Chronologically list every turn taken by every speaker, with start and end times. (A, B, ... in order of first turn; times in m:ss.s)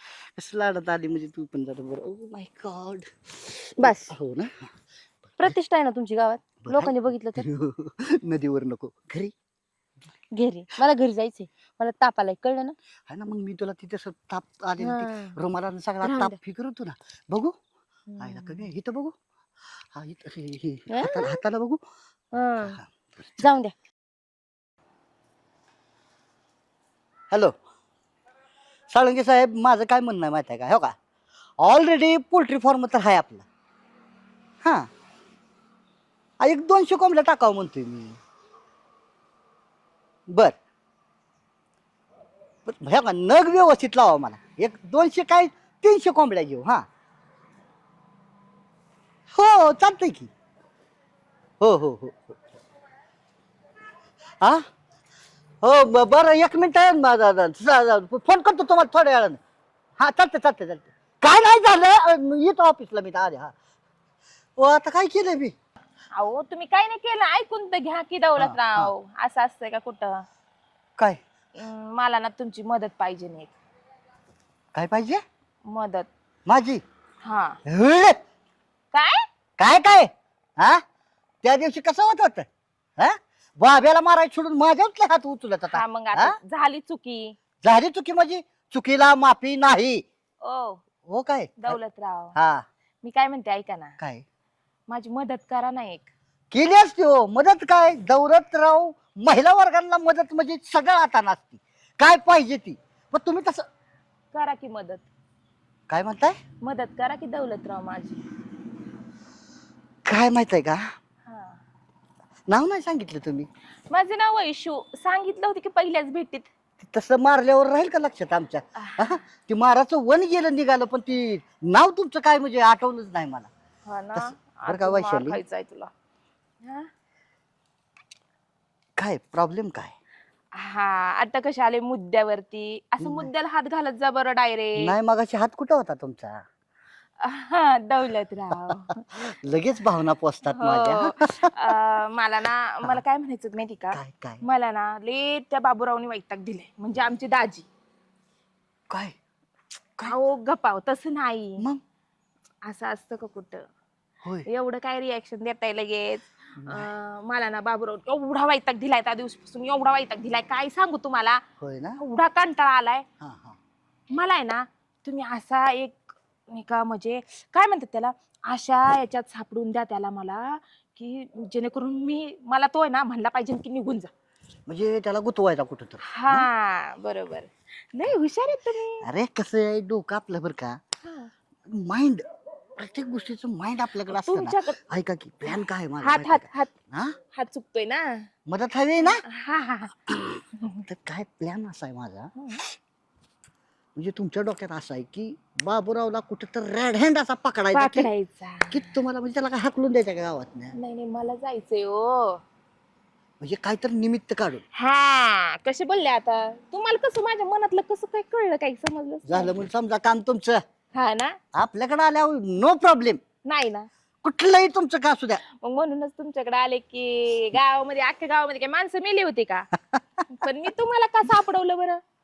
0:00.4-0:04.5 A
0:03.8-0:04.1 B
0:05.4-0:07.4 B
0:06.6-0:09.3 A
0:10.4-0:12.8 B
0:13.1-0:17.5 A
0:14.8-0:15.3 B
0:16.0-0:16.4 B
0:18.1-0:18.6 B
0:18.2-0:19.1 A
0:19.9-0:21.8 A
0:20.9-0:21.4 B
0:22.3-0:22.8 B
0:22.6-0:23.4 A
0:23.4-0:23.7 B
0:28.9-0:30.9 A
0:31.6-0:33.4 A
0:34.6-0:34.9 A
0:36.4-0:38.2 A
0:40.3-0:40.5 A
0:42.6-0:46.8 A
0:49.3-0:50.3 A
0:51.6-0:52.4 A
0:55.6-0:59.4 A
1:00.0-1:03.5 A
1:04.6-1:05.5 A
1:06.2-1:10.2 C
1:08.4-1:08.9 A
1:11.6-1:13.5 C
1:14.7-1:15.2 A
1:15.6-1:16.1 C
1:16.5-1:16.8 A
1:17.2-1:17.6 C
1:17.7-1:18.2 A
1:18.9-1:19.2 C
1:19.6-1:20.8 A
1:21.4-1:22.5 A
1:23.0-1:26.4 A
1:25.7-1:27.4 C
1:27.6-1:30.0 A
1:30.4-1:30.8 C
1:31.1-1:31.8 A
1:31.6-1:32.3 C
1:32.3-1:32.6 A
1:33.0-1:33.9 C
1:34.0-1:34.2 A
1:34.9-1:36.1 C
1:36.5-1:43.6 A
1:44.3-1:45.0 C
1:45.9-1:46.4 A
1:46.6-1:48.2 C
1:50.0-1:50.8 A
1:51.2-1:51.6 C
1:52.5-1:53.5 A
1:53.9-1:56.5 C
1:56.8-2:03.5 A
1:58.8-1:59.2 C
2:03.9-2:05.9 C
2:04.1-2:05.4 A
2:06.6-2:06.9 C
2:09.0-2:09.9 A
2:10.6-2:14.9 C
2:13.0-2:13.3 A
2:14.8-2:16.4 A
2:17.2-2:19.1 C
2:18.7-2:21.7 A
2:20.6-2:27.6 C
2:23.9-2:24.4 A
2:28.9-2:29.1 A
2:30.0-2:31.6 C
2:32.6-2:33.6 C
2:34.5-2:41.4 C
2:36.6-2:36.9 A
2:41.6-2:42.0 A
2:42.0-2:43.0 C
2:43.2-2:43.6 A
2:44.1-2:54.1 C
2:54.7-2:56.5 A
2:56.1-2:59.0 C
2:59.0-3:00.8 A
3:01.0-3:01.3 C
3:01.7-3:02.2 A
3:02.8-3:07.2 A
3:04.0-3:04.8 C
3:05.5-3:06.7 C
3:07.3-3:08.3 C
3:08.5-3:09.2 A
3:09.0-3:09.9 C
3:10.1-3:12.3 A
3:12.4-3:12.6 C
3:14.0-3:18.1 A
3:17.7-3:19.0 C
3:18.7-3:20.7 A
3:20.7-3:22.4 C
3:23.4-3:24.6 A
3:24.7-3:29.5 C
3:29.2-3:30.6 A
3:30.9-3:31.4 C
3:31.5-3:33.2 A
3:33.4-3:33.9 C
3:34.2-3:35.4 A
3:35.6-3:39.7 C
3:40.3-3:42.0 C